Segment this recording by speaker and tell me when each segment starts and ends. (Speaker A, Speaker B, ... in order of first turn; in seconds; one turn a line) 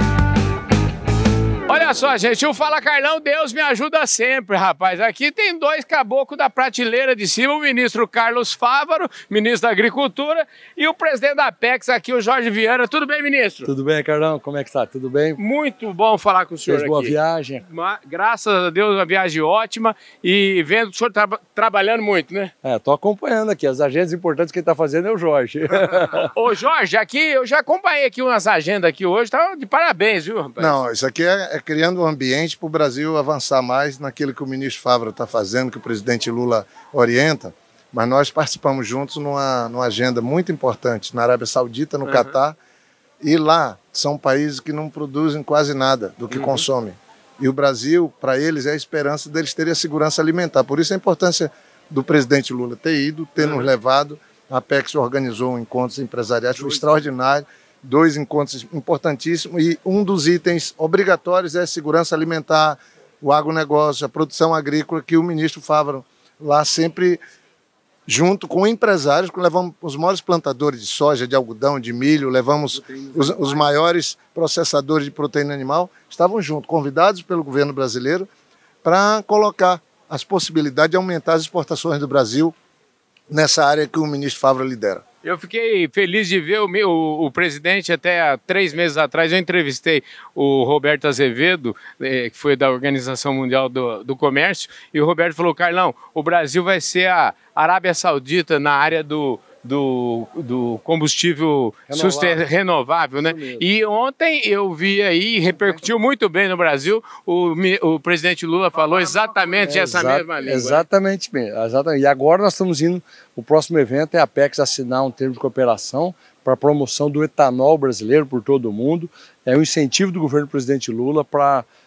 Speaker A: 1.7-13.7
Speaker B: 13.6-15.4
Speaker A: 15.4-22.5
Speaker B: 16.7-17.6
Speaker B: 22.6-26.3
Speaker A: 26.2-30.8
Speaker C: 30.6-42.6
Speaker A: 42.0-42.3
Speaker C: 43.2-67.2
Speaker A: 46.3-46.6
Speaker A: 53.4-53.7
Speaker C: 68.1-78.3
Speaker C: 78.8-82.5
Speaker C: 83.3-85.0
Speaker A: 85.2-110.8
Speaker B: 101.9-102.4
Speaker B: 103.2-103.6
Speaker B: 105.5-105.8
Speaker B: 109.6-121.7